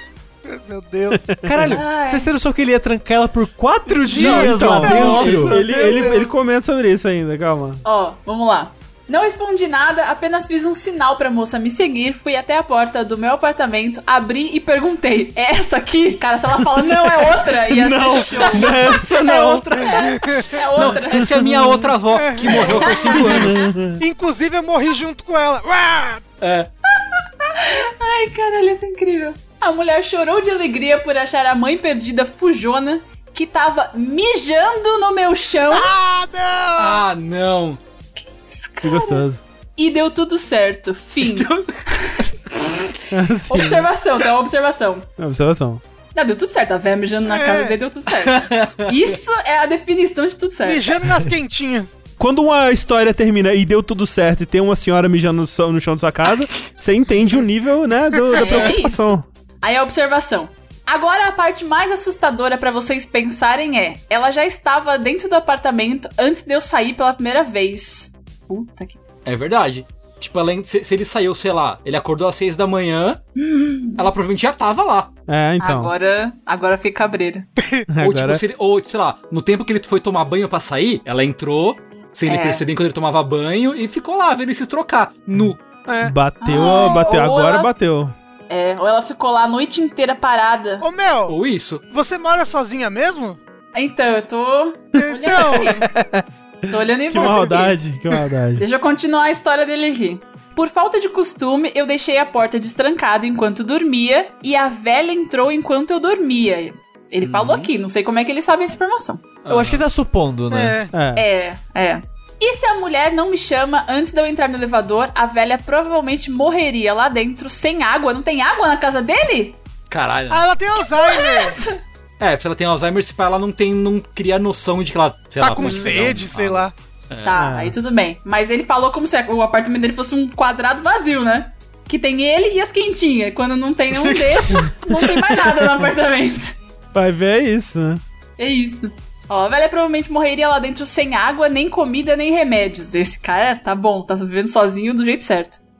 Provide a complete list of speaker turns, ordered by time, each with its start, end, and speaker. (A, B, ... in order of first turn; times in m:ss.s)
0:00.4-0:01.3 A
0:01.1-0:01.6 B
0:01.4-0:05.6 C
0:01.6-0:02.3 D
0:04.0-0:07.8 B
0:04.0-0:06.3 A
0:04.7-0:06.1 E
0:07.8-0:19.0 D
0:17.7-0:19.7 B
0:18.5-0:23.7 E
0:19.7-0:20.6 A
0:19.7-0:21.6 D
0:21.2-0:21.7 B
0:22.1-0:26.2 A
0:22.5-0:23.5 D
0:23.2-0:24.0 B
0:26.4-0:26.7 E
0:27.1-0:35.9 D
0:35.7-0:37.0 A
0:36.8-0:37.8 E
0:38.2-0:39.2 D
0:38.8-0:39.4 B
0:39.8-0:45.1 D
0:41.2-0:41.6 E
0:43.1-0:43.9 B
0:45.2-0:45.8 B
0:46.1-0:51.0 D
0:47.2-0:47.8 A
0:48.2-0:48.9 E
0:50.6-0:51.9 A
0:52.2-0:59.2 B
0:58.3-0:59.1 D
0:59.6-1:09.0 D
1:09.2-1:13.2 E
1:13.3-1:14.1 D
1:14.0-1:15.1 E
1:15.3-1:15.9 B
1:15.6-1:17.5 D
1:17.6-1:17.9 A
1:17.9-1:18.4 B
1:18.0-1:25.6 E
1:22.3-1:22.6 D
1:25.9-1:27.2 A
1:26.0-1:28.1 B
1:26.4-1:27.7 D
1:28.5-1:30.8 D
1:30.8-1:31.4 A
1:31.3-1:31.8 E
1:31.9-1:33.4 A
1:33.7-1:35.8 D
1:35.0-1:35.9 A
1:35.3-1:36.2 B
1:36.7-1:37.8 D
1:37.1-1:38.6 B
1:38.6-1:49.2 D
1:47.2-1:47.7 E
1:49.4-1:49.8 E
1:49.5-1:50.8 C
1:50.5-1:50.9 A
1:50.9-1:51.2 B
1:51.1-1:59.6 D
1:59.9-2:00.4 E
2:00.3-2:01.6 A
2:00.7-2:01.8 D
2:02.2-2:07.3 E
2:05.4-2:06.7 A
2:05.6-2:06.1 D
2:07.2-2:16.6 D
2:07.3-2:07.8 B
2:16.9-2:18.0 B
2:18.4-2:25.6 D